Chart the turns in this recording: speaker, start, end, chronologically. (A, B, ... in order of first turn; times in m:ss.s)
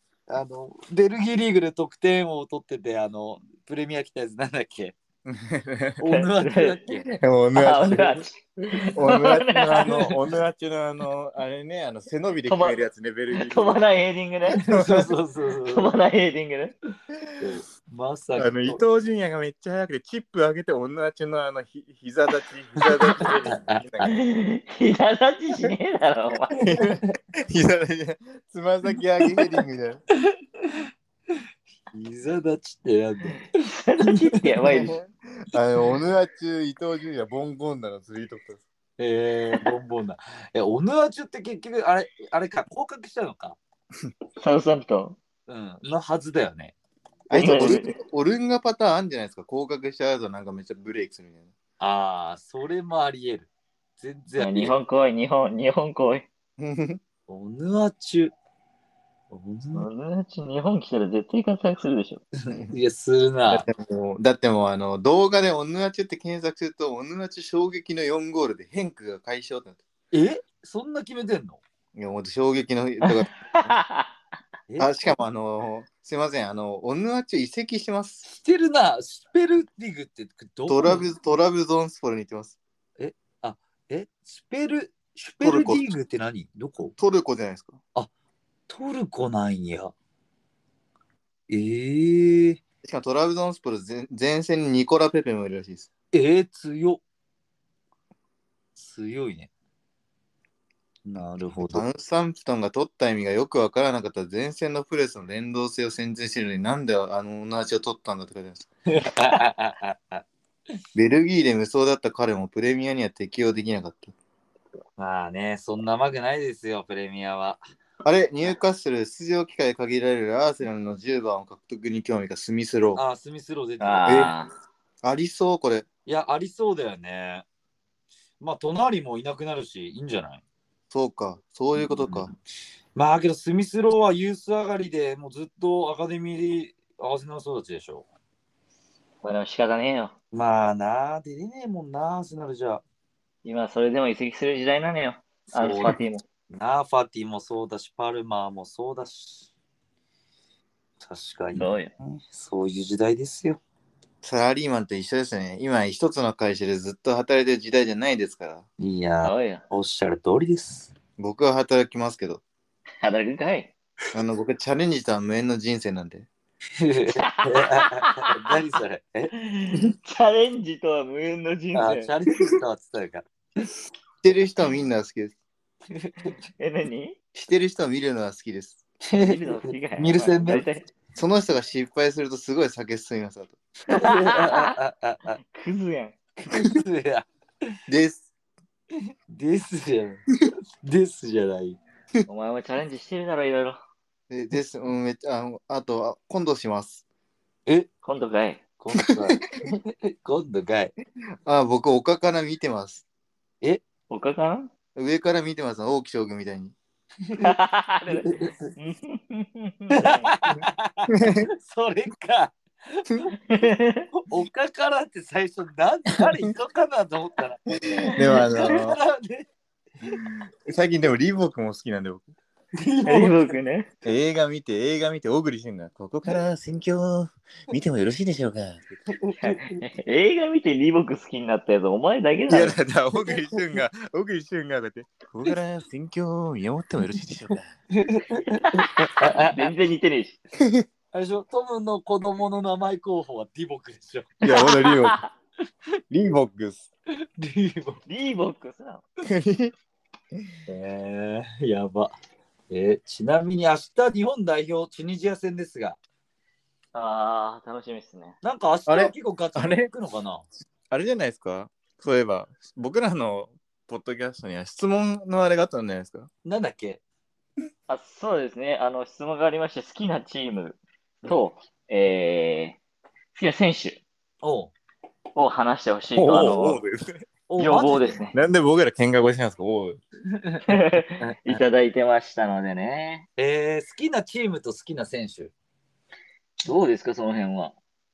0:00.3-0:04.9 A
0:05.2-0:06.0 B
0:06.0-0:07.1 A
0:06.1-0:06.8 C
0:07.1-0:08.2 B
0:07.5-0:10.1 C
0:08.9-0:13.8 B
0:12.4-0:12.8 C
0:13.3-0:14.6 C
0:14.6-0:15.9 A
0:14.6-0:15.1 B
0:15.7-0:16.7 C
0:17.2-0:17.5 B
0:17.4-0:18.8 A
0:18.4-0:24.2 B
0:22.8-0:23.8 A
0:24.0-0:26.6 C
0:26.6-0:30.0 B
0:30.3-0:31.4 A
0:31.9-0:34.8 A
0:33.6-0:35.0 C
0:34.7-0:38.6 B
0:39.0-0:43.6 A
0:44.4-0:45.2 C
0:45.5-0:46.7 A
0:47.3-0:51.5 B
0:47.3-0:47.9 C
0:51.8-0:54.7 A
0:54.4-0:56.2 C
0:56.6-0:57.0 B
0:57.3-0:58.3 A
0:59.3-0:59.9 A
0:59.7-1:02.2 C
1:02.4-1:03.6 A
1:03.5-1:09.8 B
1:10.1-1:11.6 A
1:11.9-1:13.7 B
1:13.0-1:14.1 C
1:14.7-1:15.2 A
1:14.8-1:18.2 B
1:18.2-1:21.1 A
1:20.7-1:22.6 B
1:23.0-1:26.9 A
1:25.4-1:25.9 B
1:27.0-1:27.8 B
1:28.7-1:29.9 A
1:31.5-1:32.6 A
1:32.8-1:35.9 B
1:36.1-1:37.0 A
1:38.8-1:39.5 A
1:41.0-1:41.8 A
1:41.6-1:48.7 B
1:48.9-1:50.2 A
1:50.9-1:54.1 B
1:55.0-1:57.6 A
1:58.0-2:03.0 B
2:02.9-2:04.3 A
2:03.8-2:04.5 C
2:04.1-2:04.3 B
2:05.0-2:05.9 B
2:06.0-2:07.4 A
2:08.4-2:10.4 A
2:10.9-2:12.3 B
2:11.8-2:12.4 A
2:12.9-2:18.0 A
2:19.2-2:20.1 C
2:20.3-2:22.8 A
2:23.4-2:26.2 C
2:25.5-2:26.0 A
2:26.5-2:29.5 A
2:31.0-2:33.6 A
2:31.5-2:31.9 C
2:34.2-2:38.6 B
2:38.8-2:40.9 A
2:39.2-2:39.6 C
2:41.2-2:42.4 B
2:43.0-2:43.7 C
2:44.1-2:46.3 B
2:46.8-2:49.3 A
2:47.2-2:48.5 C
2:49.3-2:52.1 C
2:51.7-2:53.7 A
2:54.2-2:55.4 B
2:55.9-2:56.3 A
2:56.6-2:57.2 C
2:57.3-2:58.8 B
2:59.1-3:00.7 A
2:59.2-3:00.8 C
3:01.1-3:03.6 B
3:03.9-3:04.7 C
3:03.9-3:05.4 A
3:05.5-3:06.1 C
3:06.4-3:07.7 A
3:07.9-3:08.3 B
3:09.3-3:10.3 A
3:10.8-3:11.8 A
3:12.3-3:13.8 C
3:14.3-3:17.0 B
3:18.0-3:18.6 C
3:18.8-3:20.9 A
3:21.4-3:23.0 B
3:24.1-3:24.7 C
3:25.0-3:26.7 B
3:27.4-3:30.3 C
3:28.1-3:28.7 A
3:29.9-3:33.3 A
3:31.1-3:31.5 B
3:33.4-3:34.1 C
3:34.3-3:39.5 A
3:37.9-3:39.0 B
3:38.1-3:38.7 C
3:40.7-3:42.2 B
3:42.8-3:43.5 A
3:43.0-3:43.9 C
3:44.0-3:48.8 B
3:49.1-3:49.8 A
3:49.4-3:52.8 C
3:52.5-3:57.7 B
3:57.9-3:59.7 A
3:58.6-4:00.4 C
4:00.6-4:00.8 B
4:01.1-4:04.4 A
4:04.4-4:05.2 B
4:04.5-4:05.3 C
4:06.1-4:06.9 B
4:07.4-4:08.0 A
4:08.1-4:09.0 C
4:09.2-4:09.7 B
4:10.7-4:12.1 A
4:12.7-4:16.0 A
4:16.9-4:18.4 C
4:18.4-4:20.4 A
4:18.9-4:19.9 B
4:20.9-4:26.3 B
4:26.4-4:27.0 A
4:27.9-4:32.8 C
4:33.3-4:34.0 C
4:34.4-4:34.7 A
4:35.4-4:36.8 C
4:36.1-4:37.2 B
4:37.5-4:38.2 A
4:37.6-4:38.4 C
4:38.3-4:40.0 B
4:40.3-4:41.6 A
4:40.6-4:43.3 C
4:43.4-4:45.5 A
4:46.6-4:47.8 C